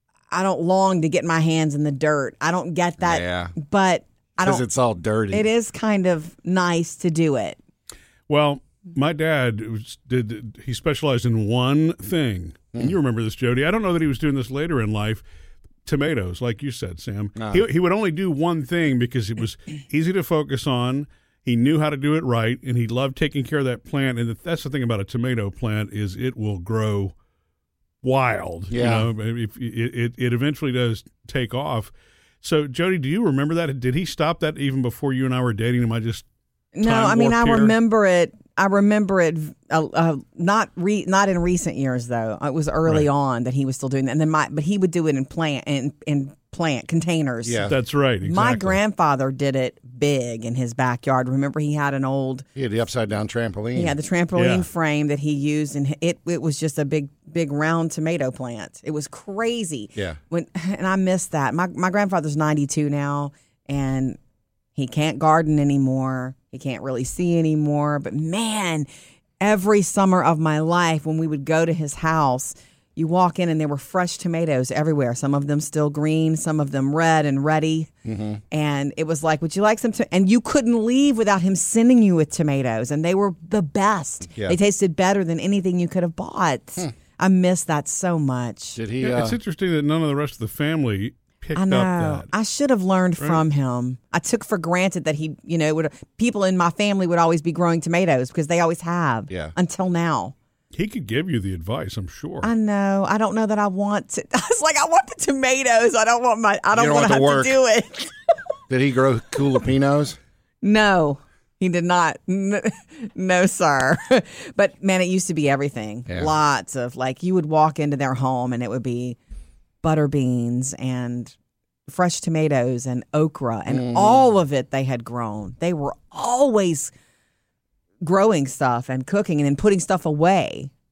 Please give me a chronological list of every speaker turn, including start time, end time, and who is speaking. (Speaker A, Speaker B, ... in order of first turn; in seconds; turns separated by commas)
Speaker A: 0.3-4.6, Speaker B: 3.0-3.5, Speaker B: 4.4-5.5, Speaker A: 5.3-7.6, Speaker C: 8.3-15.2, Speaker C: 15.8-27.1, Speaker B: 17.4-17.7, Speaker C: 28.0-36.3, Speaker B: 28.7-29.1, Speaker A: 36.8-47.6, Speaker C: 36.8-37.8, Speaker B: 47.5-47.8, Speaker C: 47.7-48.8, Speaker A: 48.2-52.5, Speaker B: 52.6-53.9, Speaker A: 53.8-64.2, Speaker C: 54.4-54.7, Speaker A: 64.8-68.9, Speaker A: 69.4-77.9, Speaker B: 78.1-78.4, Speaker A: 78.5-88.8, Speaker B: 88.8-89.4, Speaker C: 89.0-92.3, Speaker A: 91.6-100.3, Speaker C: 100.7-102.5, Speaker A: 102.4-108.3, Speaker B: 106.7-107.5, Speaker B: 108.7-110.2, Speaker A: 110.6-119.2, Speaker A: 119.8-121.3, Speaker A: 121.9-126.9, Speaker B: 123.7-124.2, Speaker A: 128.0-130.7